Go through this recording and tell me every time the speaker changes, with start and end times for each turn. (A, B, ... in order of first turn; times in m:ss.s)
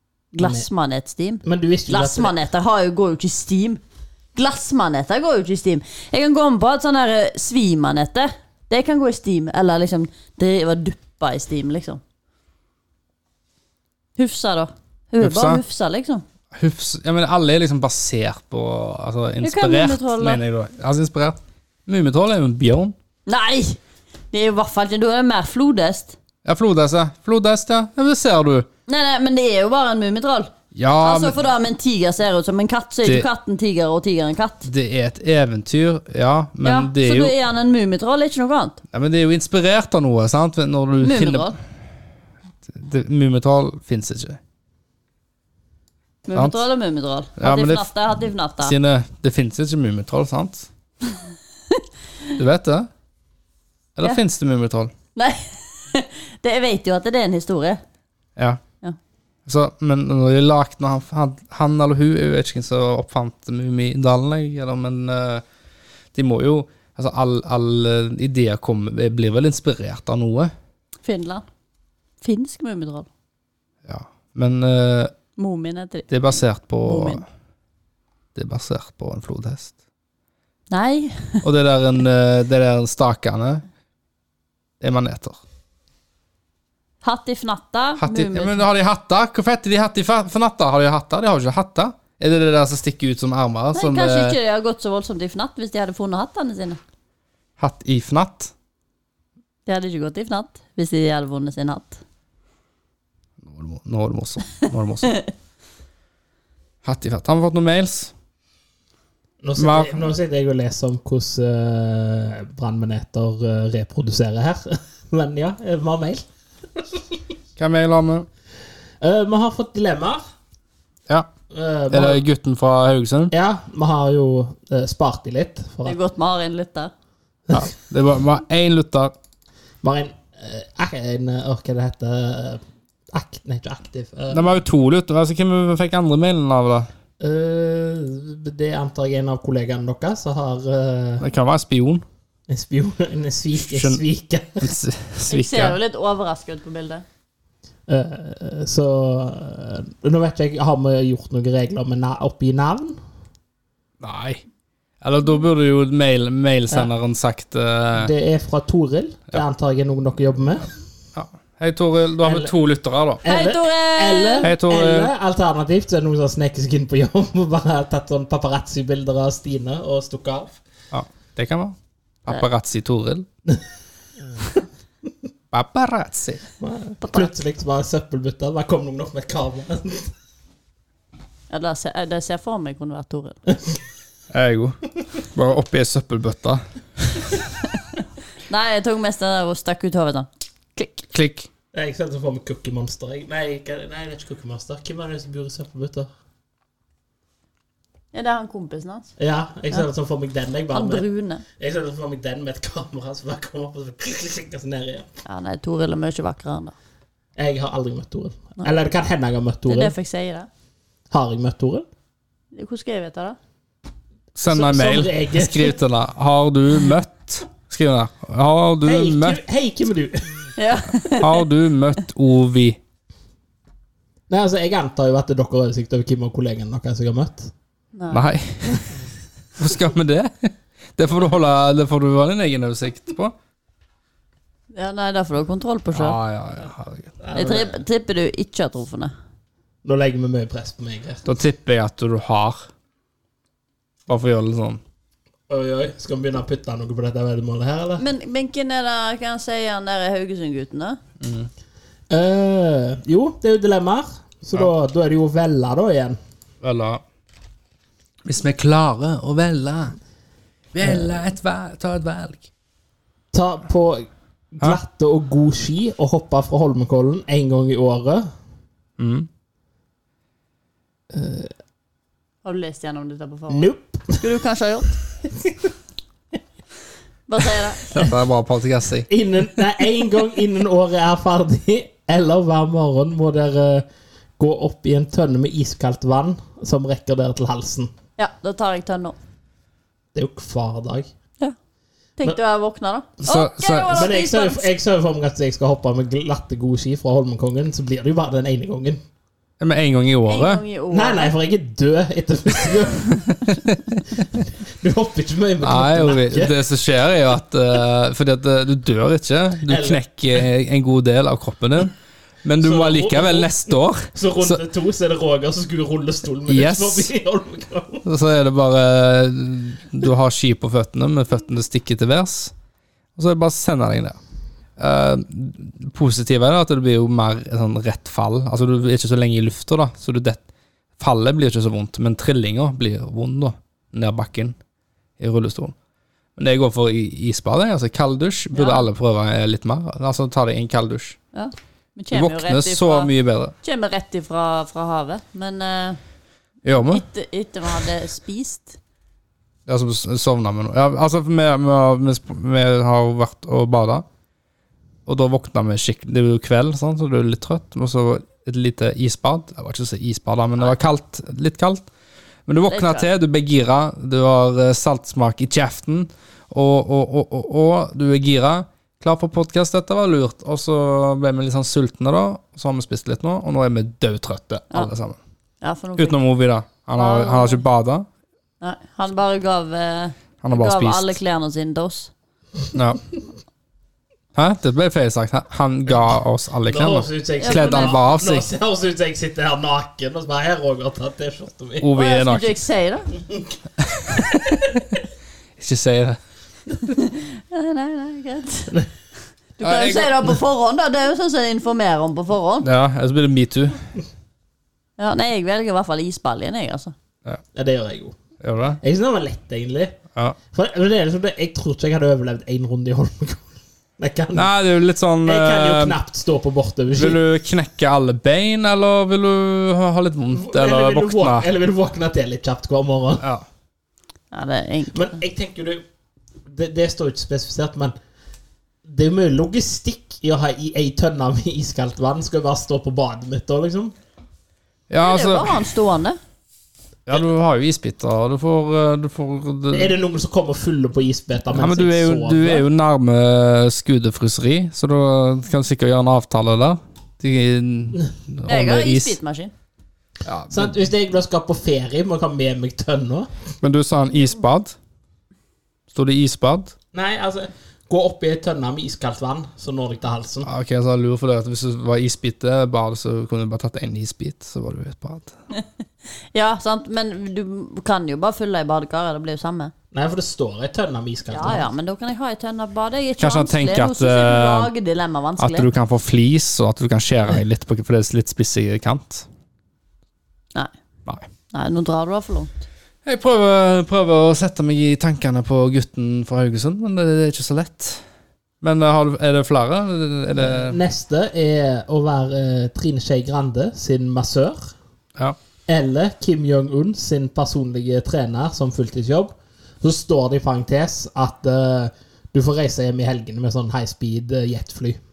0:00.3-0:03.8 A
0:00.4-0:00.6 B
0:01.4-0:02.3 B
0:04.3-0:12.0 A
0:14.2-0:16.2 A
0:15.2-0:15.6 C
0:16.5-0:22.9 C
0:19.4-0:20.4 A
0:23.3-0:23.8 A
0:24.3-0:26.2 A
0:26.4-0:28.7 C
0:28.9-0:34.7 A
0:30.7-0:31.4 C
0:34.6-0:37.3 C
0:36.6-0:38.8 A
0:38.9-0:41.5 C
0:41.0-0:41.6 A
0:42.6-0:44.4 C
0:46.2-0:48.7 A
0:47.4-0:47.9 C
0:48.6-0:50.7 C
0:52.4-0:52.9 C
0:54.0-0:54.9 C
0:55.2-0:57.8 A
0:58.4-0:58.6 C
0:59.4-1:05.4 C
1:06.1-1:10.5 C
1:11.0-1:11.4 A
1:12.2-1:13.1 A
1:13.8-1:15.1 C
1:15.4-1:16.1 A
1:16.1-1:17.2 C
1:16.8-1:17.2 A
1:18.3-1:19.7 C
1:20.7-1:21.4 A
1:21.4-1:23.6 C
1:24.8-1:25.4 C
1:27.0-1:28.6 A
1:28.0-1:34.4 C
1:33.7-1:36.8 A
1:37.6-1:38.5 C
1:39.6-1:42.0 A
1:43.4-1:45.2 C
1:46.8-1:48.1 C
1:49.4-1:56.2 B
1:49.6-1:50.1 C
1:56.8-1:57.0 B
1:57.6-1:58.3 C
1:59.0-2:00.2 B
2:01.5-2:02.2 B
2:01.9-2:03.3 C
2:03.3-2:06.0 B
2:05.8-2:06.9 A
2:07.5-2:09.1 C
2:09.8-2:14.5 B
2:14.3-2:16.9 C
2:17.2-2:21.2 B
2:21.2-2:22.0 C
2:22.5-2:24.7 B
2:23.6-2:24.0 C
2:24.6-2:25.8 C
2:25.3-2:27.0 A
2:27.9-2:33.0 B
2:34.0-2:34.4 C
2:35.0-2:38.1 C
2:37.9-2:40.7 B
2:41.1-2:43.2 C
2:42.2-2:42.5 B
2:43.2-2:50.6 B
2:43.2-2:44.5 A
2:44.4-2:45.1 C
2:50.9-2:53.2 C
2:55.5-2:56.4 C
2:56.6-3:00.1 B
2:57.0-2:57.3 A
3:01.5-3:03.4 A
3:04.3-3:07.3 C
3:08.5-3:10.9 A
3:11.1-3:11.5 C
3:11.7-3:16.1 B
3:18.1-3:19.1 A
3:19.2-3:21.0 B
3:20.7-3:21.4 A
3:21.6-3:25.1 B
3:25.2-3:26.7 A
3:27.4-3:29.9 B
3:29.7-3:30.5 A
3:31.1-3:31.8 B
3:32.5-3:33.4 A
3:34.4-3:39.4 C
3:34.5-3:35.8 B
3:38.8-3:40.5 B
3:40.6-3:41.4 A
3:41.2-3:42.8 C
3:44.3-3:47.5 B
3:47.9-3:48.2 A
3:48.1-3:48.9 C
3:49.6-3:53.3 C
3:54.7-3:56.2 A
3:55.9-3:57.1 C
3:57.2-3:57.8 B
3:57.3-3:59.1 A
3:59.8-4:01.2 B
4:01.2-4:02.7 C
4:04.1-4:04.8 C
4:05.5-4:08.0 B
4:08.0-4:11.0 A
4:11.2-4:11.5 C
4:12.1-4:16.2 B
4:16.6-4:17.0 C
4:18.2-4:20.0 C
4:20.7-4:22.5 C
4:23.3-4:28.3 B
4:29.0-4:29.3 C
4:31.1-4:31.5 B
4:32.4-4:35.0 A
4:33.5-4:34.2 B
4:37.3-4:37.9 A
4:37.9-4:39.1 C
4:39.1-4:43.8 B
4:44.4-4:47.9 B
4:48.2-4:49.2 A
4:50.1-4:51.1 B
4:52.2-4:54.7 A
4:53.2-4:54.1 C
4:53.9-4:59.0 B
4:59.6-5:00.6 C
5:00.3-5:01.3 A
5:00.9-5:03.5 B
5:03.1-5:04.2 C
5:04.2-5:06.6 B
5:05.6-5:14.6 C
5:09.7-5:10.0 B
5:12.6-5:13.6 B
5:14.1-5:18.0 B
5:16.5-5:17.1 C
5:18.0-5:22.5 C
5:23.2-5:24.2 C
5:24.8-5:30.4 C
5:31.0-5:34.6 C
5:35.2-5:35.7 C
5:36.4-5:41.2 C
5:38.5-5:38.9 A
5:41.3-5:46.0 A
5:42.1-5:43.5 C
5:46.6-5:47.0 C
5:46.7-5:48.8 A
5:49.7-5:54.0 C
5:55.0-6:01.9 C
6:02.5-6:15.2 C
6:02.7-6:03.1 A
6:15.6-6:16.2 A
6:16.0-6:18.1 C
6:17.0-6:17.6 A
6:18.6-6:22.1 A
6:20.4-6:21.2 C
6:22.7-6:23.0 C
6:24.3-6:28.5 C
6:26.6-6:31.9 B
6:27.4-6:28.0 A
6:31.8-6:32.6 C
6:32.0-6:33.1 A
6:33.8-6:35.0 C
6:35.6-6:36.2 C
6:36.8-6:38.8 A
6:39.6-6:42.7 A
6:39.6-6:40.4 C
6:42.6-6:43.8 C
6:45.0-6:46.9 A
6:47.5-6:48.2 B
6:48.4-6:48.8 C
6:48.8-6:50.0 B
6:50.5-6:53.4 B
6:54.0-6:54.5 B
6:54.3-6:56.0 C
6:55.2-6:57.2 B
6:57.0-7:01.5 C
7:00.3-7:03.2 B
7:03.2-7:03.4 C
7:04.3-7:05.2 A
7:04.9-7:05.8 B
7:06.4-7:07.9 B
7:08.8-7:13.9 B
7:14.9-7:15.6 C
7:15.0-7:16.2 A
7:17.1-7:19.9 C
7:19.7-7:22.6 B
7:21.5-7:29.2 C
7:28.4-7:29.5 A
7:30.2-7:30.8 C
7:30.5-7:33.3 B
7:33.6-7:34.8 C
7:35.9-7:36.7 C
7:36.9-7:40.5 B
7:40.4-7:45.3 C
7:46.3-7:49.7 A
7:49.9-7:51.7 B
7:51.3-7:55.7 A
7:53.2-7:54.7 C
7:55.4-7:59.2 C
8:01.5-8:02.6 A
8:03.0-8:08.0 C
8:08.6-8:10.8 C
8:10.4-8:14.7 B
8:15.7-8:25.0 B